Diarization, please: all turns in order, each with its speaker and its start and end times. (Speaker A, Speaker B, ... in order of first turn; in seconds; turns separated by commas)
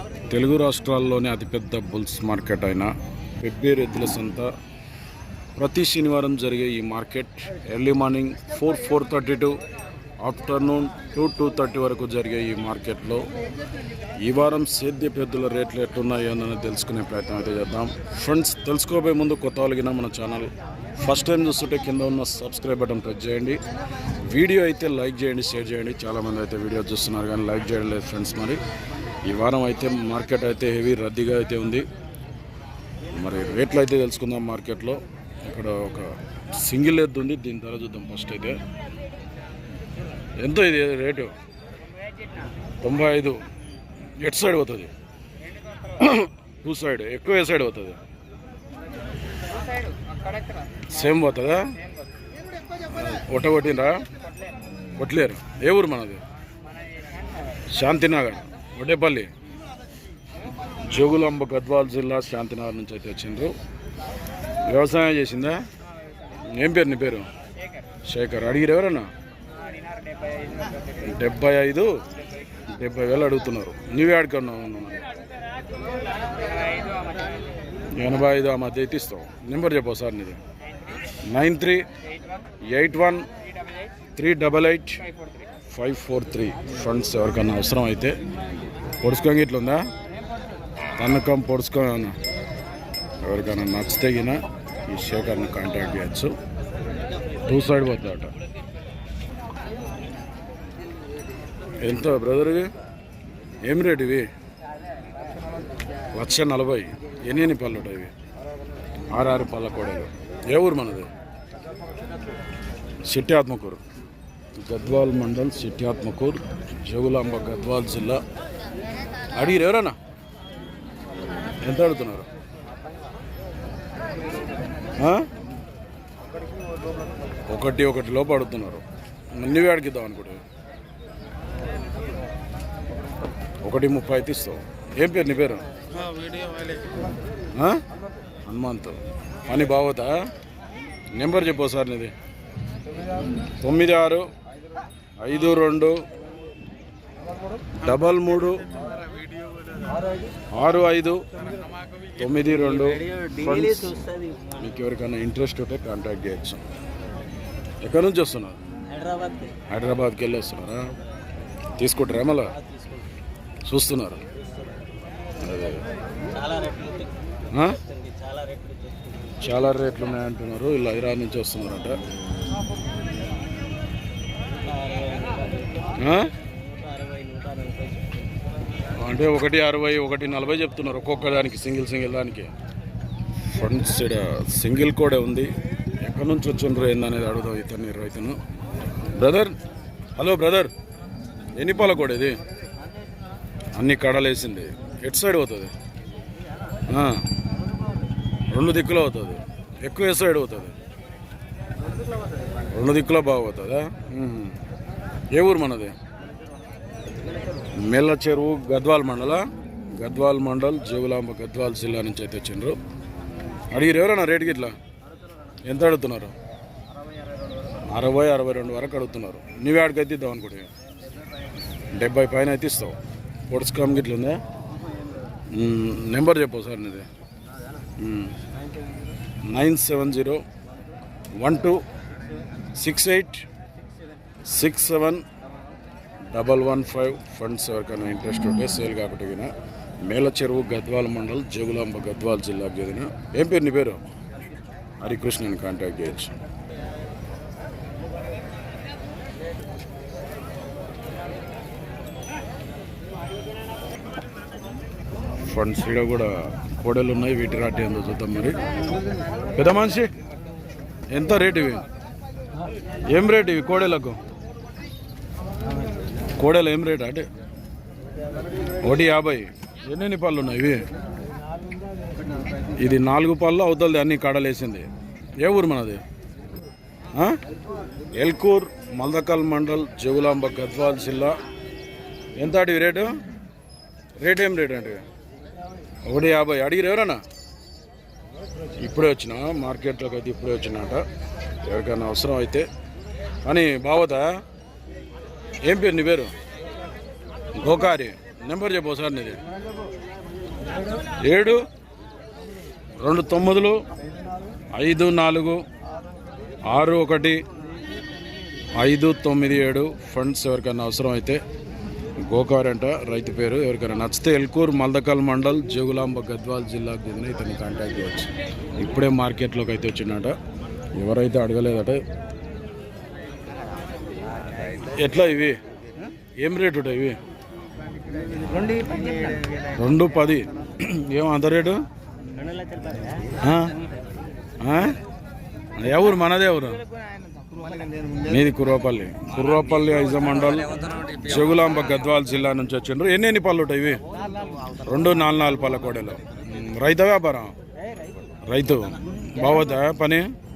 Speaker A: 0.3-2.9, Speaker A: 3.4-4.5, Speaker A: 5.5-9.6, Speaker A: 10.2-13.3, Speaker A: 14.2-23.6, Speaker A: 24.3-28.6, Speaker A: 29.2-31.8, Speaker A: 33.1-38.6, Speaker A: 40.4-41.3, Speaker A: 42.8-43.4, Speaker A: 44.2-44.9, Speaker A: 45.9-48.0, Speaker A: 50.9-51.7, Speaker A: 52.9-54.0, Speaker A: 55.0-56.2, Speaker A: 57.7-59.3, Speaker A: 60.9-63.5, Speaker A: 64.6-65.6, Speaker A: 66.5-67.3, Speaker A: 68.0-69.1, Speaker A: 70.9-71.9, Speaker A: 72.7-75.0, Speaker B: 76.6-77.1, Speaker A: 78.0-80.4, Speaker A: 81.3-81.8, Speaker A: 82.7-83.2, Speaker A: 84.2-85.0, Speaker A: 85.7-88.2, Speaker A: 89.0-89.8, Speaker A: 91.0-92.2, Speaker A: 93.2-96.3, Speaker A: 97.5-98.3, Speaker A: 101.8-102.7, Speaker A: 103.6-104.2, Speaker A: 106.1-108.1, Speaker A: 109.1-111.1, Speaker A: 113.1-113.8, Speaker A: 114.6-118.2, Speaker A: 119.3-120.0, Speaker A: 121.6-122.3, Speaker A: 125.0-125.3, Speaker A: 127.5-130.4, Speaker A: 133.6-135.6, Speaker A: 137.5-137.8, Speaker A: 138.5-140.2, Speaker A: 141.1-142.1, Speaker A: 143.6-144.3, Speaker A: 145.2-146.0, Speaker A: 147.8-148.6, Speaker A: 150.5-151.2, Speaker A: 152.2-153.9, Speaker B: 152.5-154.6, Speaker A: 154.6-156.6, Speaker A: 157.8-158.6, Speaker B: 158.9-159.6, Speaker A: 159.7-160.9, Speaker A: 161.8-162.5, Speaker B: 162.6-163.0, Speaker A: 163.7-164.2, Speaker A: 165.4-165.8, Speaker B: 166.3-167.2, Speaker A: 167.5-167.8, Speaker B: 167.8-169.3, Speaker A: 169.4-171.9, Speaker B: 174.6-178.3, Speaker A: 176.0-176.3, Speaker A: 178.9-182.5, Speaker A: 183.5-185.5, Speaker A: 186.0-188.4, Speaker A: 189.1-189.5, Speaker A: 190.2-190.7, Speaker A: 191.5-192.4, Speaker A: 193.7-195.7, Speaker A: 196.9-197.2, Speaker A: 198.5-200.7, Speaker A: 202.7-204.6, Speaker A: 205.3-205.9, Speaker A: 207.8-209.4, Speaker A: 210.0-212.8, Speaker A: 213.7-214.8, Speaker A: 215.7-216.3, Speaker A: 217.9-220.7, Speaker A: 221.9-223.0, Speaker A: 223.5-224.4, Speaker A: 225.5-227.1, Speaker A: 228.0-228.4, Speaker A: 229.5-230.4, Speaker A: 231.4-231.8, Speaker A: 232.8-233.4, Speaker A: 234.5-235.2, Speaker A: 236.3-239.5, Speaker A: 240.0-244.0, Speaker A: 245.0-246.3, Speaker A: 255.4-258.6, Speaker A: 259.5-260.1, Speaker A: 261.1-261.8, Speaker A: 263.1-264.2, Speaker A: 266.4-267.3, Speaker A: 268.8-270.8, Speaker A: 272.7-276.0, Speaker A: 277.1-277.4, Speaker A: 278.1-281.4, Speaker A: 282.4-283.1, Speaker A: 284.2-285.0, Speaker A: 286.0-287.2, Speaker A: 288.8-291.0, Speaker A: 291.6-292.7, Speaker A: 293.4-294.4, Speaker A: 295.6-296.3, Speaker A: 297.6-299.4, Speaker A: 301.2-301.6, Speaker A: 303.0-303.8, Speaker A: 304.7-305.6, Speaker A: 306.7-307.4, Speaker A: 308.8-311.4, Speaker A: 312.2-320.3, Speaker A: 321.0-322.0, Speaker A: 324.8-325.6, Speaker A: 326.4-327.2, Speaker B: 328.5-329.4, Speaker A: 329.7-331.8, Speaker B: 332.3-333.4, Speaker A: 333.4-333.7, Speaker A: 334.6-334.9, Speaker A: 335.8-336.8, Speaker A: 338.2-344.0, Speaker B: 340.9-341.2, Speaker A: 344.8-347.5, Speaker A: 348.4-350.3